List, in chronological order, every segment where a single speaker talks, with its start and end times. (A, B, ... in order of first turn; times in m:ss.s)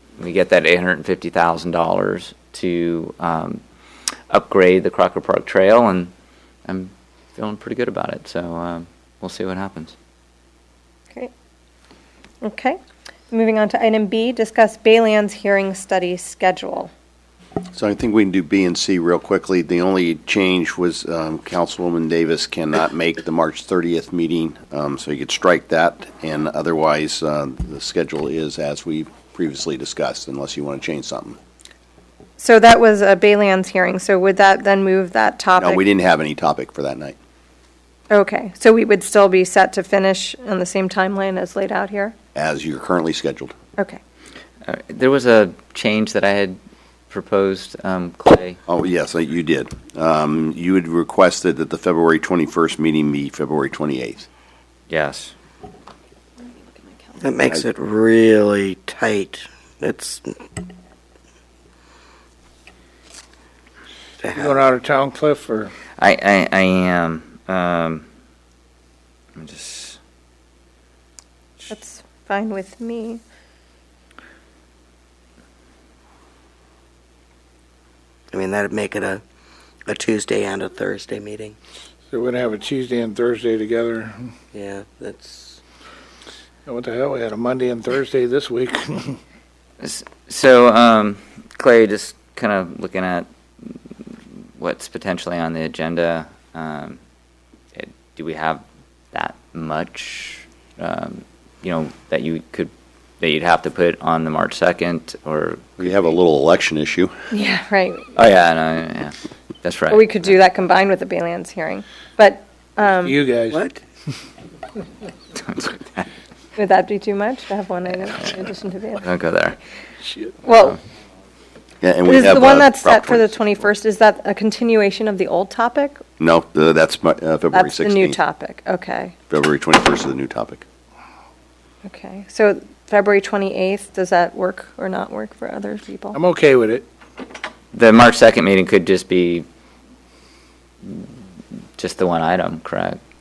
0:00.2-0:03.6 A
0:04.3-0:06.1 A
0:06.7-0:09.9 A
0:12.4-0:12.8 B
0:13.3-0:16.9 B
0:17.7-0:31.4 C
0:32.4-0:35.8 B
0:35.6-0:37.2 C
0:38.1-0:42.1 B
0:42.3-0:43.5 C
0:44.6-0:46.6 A
0:47.1-0:48.6 A
0:48.7-0:54.3 C
0:54.9-0:55.3 A
0:57.2-1:00.4 D
1:04.2-1:04.6 D
1:04.3-1:05.7 E
1:06.0-1:08.0 A
1:09.4-1:10.0 A
1:11.7-1:13.2 B
1:18.3-1:19.2 D
1:19.9-1:21.6 D
1:22.1-1:24.3 E
1:24.5-1:25.6 D
1:26.6-1:29.2 E
1:29.8-1:37.0 A
1:37.7-1:46.1 A
1:45.8-1:47.1 C
1:47.3-1:48.1 B
1:48.1-1:50.3 A
1:49.9-1:53.2 B
1:53.0-1:53.6 E
1:53.5-1:53.8 D
1:55.4-1:55.7 A
1:56.6-1:59.0 B
1:59.0-1:59.6 A
2:00.4-2:00.8 B
2:01.8-2:03.5 C
2:02.1-2:06.0 B
2:06.2-2:08.2 C
2:07.5-2:09.1 B
2:09.3-2:10.6 C
2:11.8-2:16.2 B
2:16.1-2:16.8 E
2:17.7-2:19.4 A
2:20.8-2:21.1 A
2:21.8-2:23.0 A